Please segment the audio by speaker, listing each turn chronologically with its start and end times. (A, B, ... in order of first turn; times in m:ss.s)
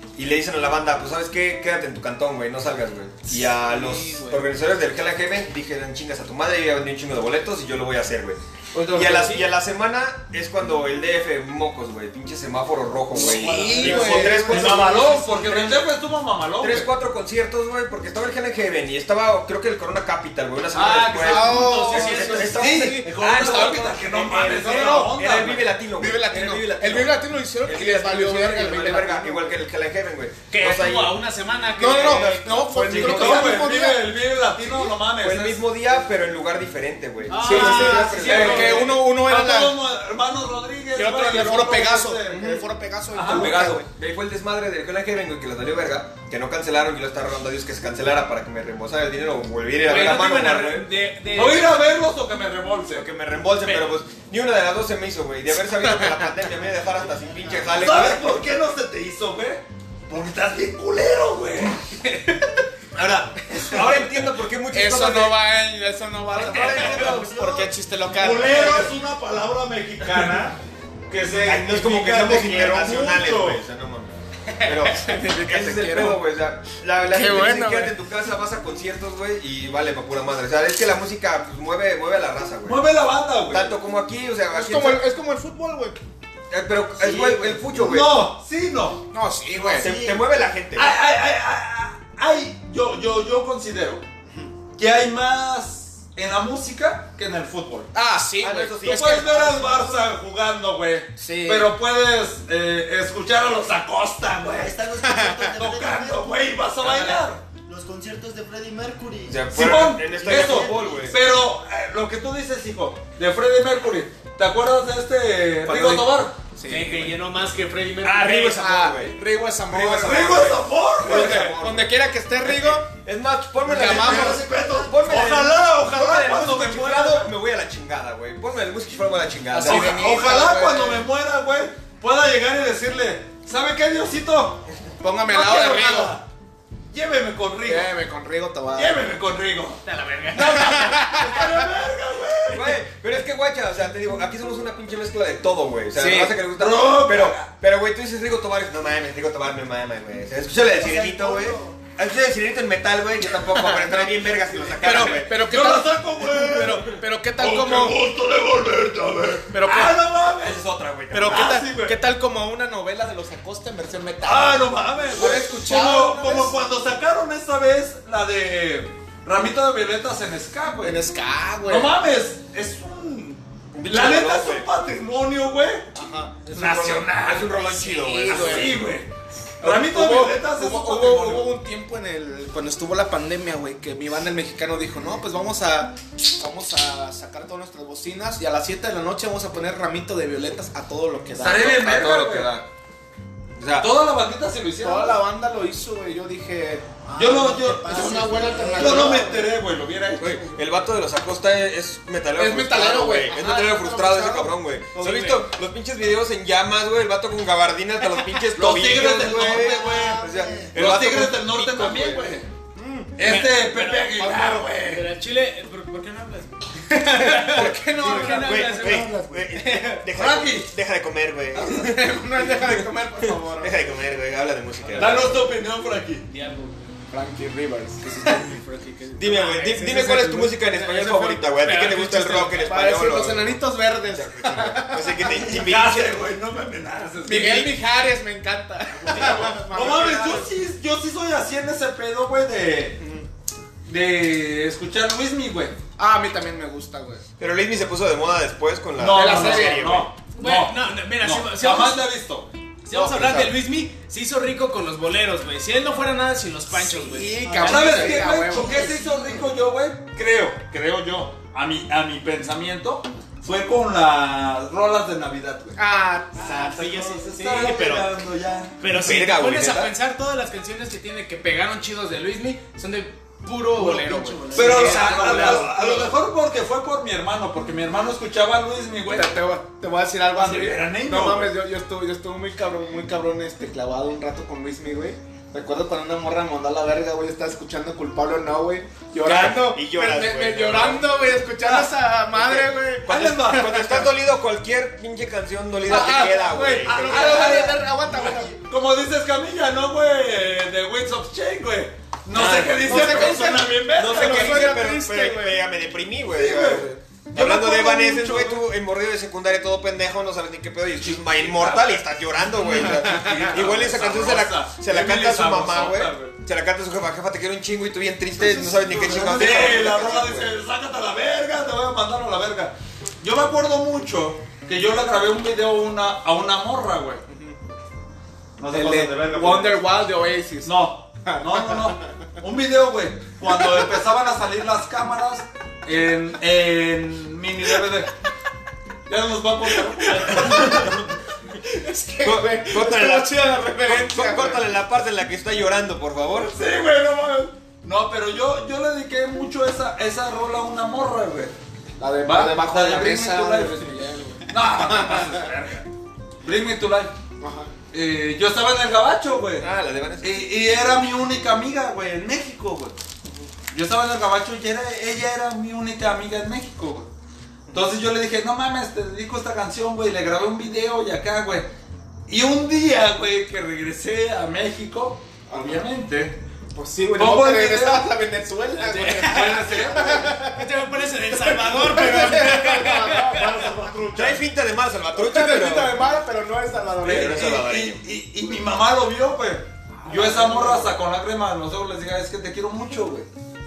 0:00.2-0:15.8 A
0:03.3-0:04.4 B
0:08.7-0:09.5 C
0:13.1-0:14.8 B
0:13.2-0:16.9 D
0:13.6-0:14.6 C
0:16.6-0:31.2 A
0:20.7-0:23.0 C
0:21.2-0:23.9 B
0:22.3-0:25.7 D
0:24.5-0:25.2 B
0:26.0-0:29.6 B
0:30.5-0:33.5 C
0:31.8-0:34.0 B
0:31.8-0:33.6 A
0:32.9-0:35.6 D
0:35.2-0:38.9 A
0:37.3-0:38.9 C
0:37.4-0:39.7 B
0:37.9-0:43.6 D
0:40.9-0:43.9 B
0:43.2-0:50.9 A
0:49.8-0:51.8 C
0:51.3-0:53.1 D
0:52.9-0:58.4 A
0:53.6-0:54.0 C
0:56.5-0:58.1 E
0:57.8-1:01.8 D
1:02.9-1:05.4 A
1:04.7-1:08.9 B
1:06.3-1:07.3 A
1:06.4-1:08.8 E
1:06.5-1:07.1 D
1:08.2-1:10.6 D
1:11.1-1:13.6 D
1:11.4-1:22.9 A
1:14.6-1:16.2 B
1:17.1-1:17.9 B
1:22.6-1:23.8 D
1:23.5-1:25.0 A
1:24.5-1:26.0 B
1:26.5-1:28.3 A
1:27.0-1:29.0 D
1:29.1-1:29.9 B
1:29.6-1:30.3 E
1:29.7-1:31.0 A
1:30.7-1:34.0 D
1:34.8-1:37.9 D
1:37.9-1:39.0 B
1:38.4-1:39.9 A
1:38.8-1:44.8 D
1:41.2-1:41.7 B
1:44.4-1:50.9 E
1:45.0-1:45.5 B
1:45.5-1:47.4 D
1:49.3-1:51.2 A
1:49.5-1:56.4 D
1:55.7-1:56.0 A
1:56.6-1:57.1 B
1:56.6-1:58.6 C
1:58.0-1:58.6 D
1:58.2-1:59.2 A
1:58.4-2:02.9 B
1:59.7-2:10.0 A
1:59.8-2:01.5 D
2:03.6-2:04.4 B
2:03.7-2:05.1 E
2:03.8-2:07.3 D
2:09.5-2:11.1 B
2:09.6-2:14.7 D
2:15.0-2:16.2 B
2:15.3-2:16.2 D
2:16.9-2:17.9 D
2:17.6-2:19.0 B
2:18.7-2:22.8 D
2:19.8-2:21.1 C
2:20.5-2:21.6 B
2:22.5-2:35.4 A
2:25.9-2:26.4 B
2:26.6-2:27.5 D
2:30.6-2:31.8 E
2:33.5-2:34.1 B
2:34.8-2:38.0 B
2:35.3-2:40.6 D
2:39.5-2:40.0 B
2:40.4-2:41.6 A
2:41.1-2:46.6 B
2:41.2-2:42.0 D
2:44.2-2:51.0 D
2:50.8-2:51.9 B
2:51.6-2:55.9 D
2:53.7-2:54.7 A
2:55.9-2:56.3 B
2:56.2-2:58.8 A
2:56.5-2:59.1 D
2:58.0-2:58.8 B
2:59.6-3:01.6 D
2:59.6-3:11.8 B
3:11.4-3:12.5 D
3:11.4-3:12.6 A
3:13.6-3:13.9 A
3:13.8-3:15.2 D
3:14.8-3:16.8 B
3:17.0-3:19.4 E
3:17.2-3:20.4 D
3:17.8-3:19.5 B
3:20.1-3:32.4 A
3:22.3-3:25.4 B
3:28.6-3:32.5 D
3:29.0-3:30.7 E
3:32.8-3:33.3 B
3:33.2-3:35.1 D
3:33.2-3:40.0 C
3:34.2-3:34.6 B
3:37.2-3:38.5 B
3:37.4-3:45.4 A
3:38.0-3:39.4 E
3:40.1-3:40.7 D
3:41.6-3:41.8 D
3:41.6-3:43.8 B
3:45.0-3:46.3 D
3:46.3-3:46.9 C
3:47.1-3:48.4 B
3:48.0-3:52.5 C
3:49.2-3:53.6 A
3:51.6-3:55.4 B
3:54.1-3:56.2 A
3:55.3-3:57.8 D
3:57.2-4:00.5 B
3:59.0-4:03.0 D
4:03.0-4:03.2 B
4:03.8-4:05.8 D
4:06.0-4:07.2 B
4:07.4-4:10.1 A
4:09.0-4:12.5 D
4:09.1-4:09.9 B
4:10.3-4:12.1 C
4:12.8-4:18.2 C
4:13.0-4:13.4 B
4:16.8-4:19.0 B
4:17.5-4:25.8 D
4:17.7-4:19.0 E
4:25.8-4:26.7 B
4:26.4-4:28.2 C
4:26.4-4:28.8 D
4:28.8-4:36.0 C
4:28.9-4:29.9 A
4:33.8-4:36.1 B
4:34.1-4:35.4 E
4:34.5-4:39.4 D
4:39.1-4:54.0 B
4:40.3-4:41.5 D
4:49.2-4:57.7 A
4:53.1-4:54.0 D
4:55.8-4:58.6 B
4:56.8-5:04.7 D
5:02.3-5:03.4 A
5:02.8-5:05.6 B
5:03.9-5:20.5 A
5:06.3-5:08.7 D
5:11.2-5:12.0 D
5:12.6-5:16.3 D
5:18.8-5:27.2 D
5:19.0-5:20.0 B
5:28.6-5:29.9 D
5:28.7-5:32.0 B
5:30.6-5:38.1 D
5:39.1-5:41.0 D
5:40.0-5:41.0 B
5:41.6-5:44.6 B
5:42.2-5:46.5 A
5:46.4-5:51.5 D
5:52.0-5:55.3 B
5:52.2-5:54.0 D
5:54.5-5:55.9 D
5:56.4-5:57.1 D
5:57.4-5:57.7 B
5:57.9-5:59.7 D
5:59.6-6:00.5 A
6:00.2-6:03.0 D
6:03.7-6:07.1 D
6:07.7-6:11.7 D
6:12.3-6:16.4 D
6:15.5-6:15.8 B
6:16.7-6:20.7 B
6:17.2-6:18.1 D
6:18.8-6:23.6 C
6:19.2-6:20.3 D
6:21.3-6:23.8 B
6:23.3-6:24.4 D
6:24.1-6:26.0 A
6:25.1-6:27.5 B
6:27.0-6:28.0 A
6:27.0-6:33.3 D
6:30.0-6:31.0 B